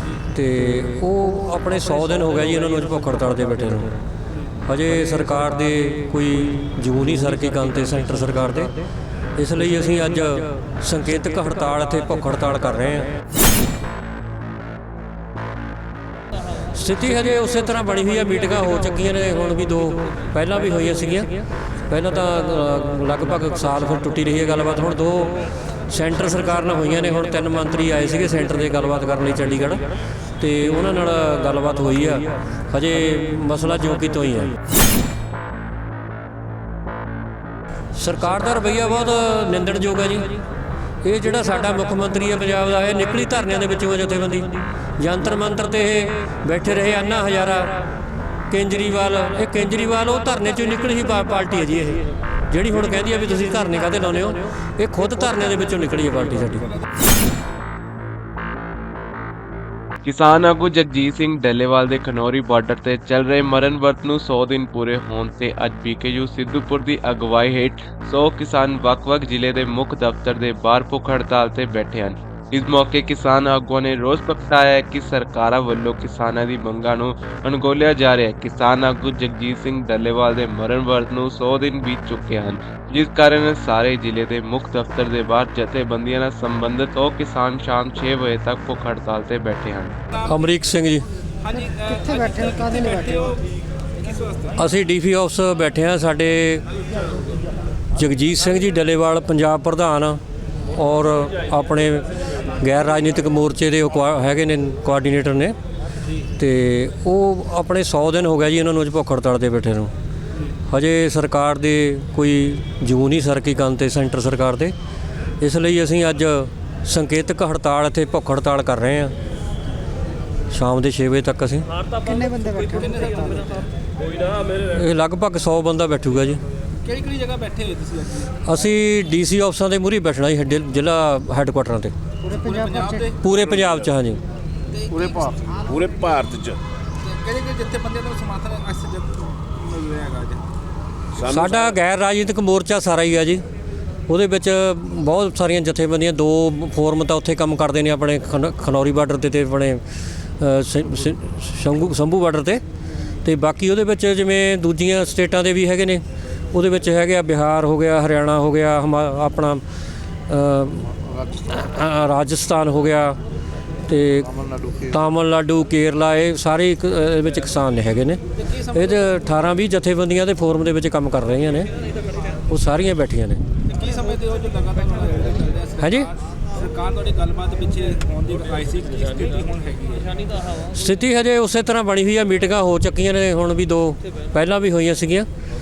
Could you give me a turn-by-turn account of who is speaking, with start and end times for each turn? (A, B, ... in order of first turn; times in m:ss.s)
0:00.3-0:04.0 A
0:04.7-0:08.8 A
0:09.4-0:13.1 A
0:16.7-0:29.8 A
0:30.4-0:34.6 A
0:38.0-0:40.4 A
0:41.0-0:47.9 A
0:48.5-0:56.7 A
1:00.0-1:30.0 B
1:30.1-1:30.4 C
1:30.3-1:31.1 A
1:31.4-1:34.6 C
1:31.8-1:33.3 D
1:34.6-1:36.6 A
1:38.0-1:40.2 A
1:40.7-1:42.1 A
1:42.6-1:45.6 A
1:46.4-1:49.9 A
1:50.7-1:54.7 A
1:55.4-1:59.1 A
2:00.5-2:01.7 A
2:02.0-2:03.4 D
2:02.8-2:03.7 C
2:04.6-2:06.4 A
2:06.8-2:08.4 C
2:08.4-2:11.9 A
2:12.2-2:13.1 D
2:12.3-2:13.2 C
2:13.2-2:14.2 A
2:13.3-2:13.9 E
2:14.7-2:15.5 C
2:15.6-2:16.6 E
2:17.0-2:20.5 C
2:21.2-2:21.6 E
2:21.3-2:23.4 A
2:24.1-2:29.8 A
2:30.4-2:32.6 A
2:33.2-2:39.6 A
2:40.3-2:43.2 A
2:43.9-2:48.2 A
2:48.4-2:49.2 C
2:48.7-2:51.7 A
2:52.5-2:53.4 A
2:53.7-3:00.2 C
2:55.8-2:56.1 A
3:00.7-3:05.3 A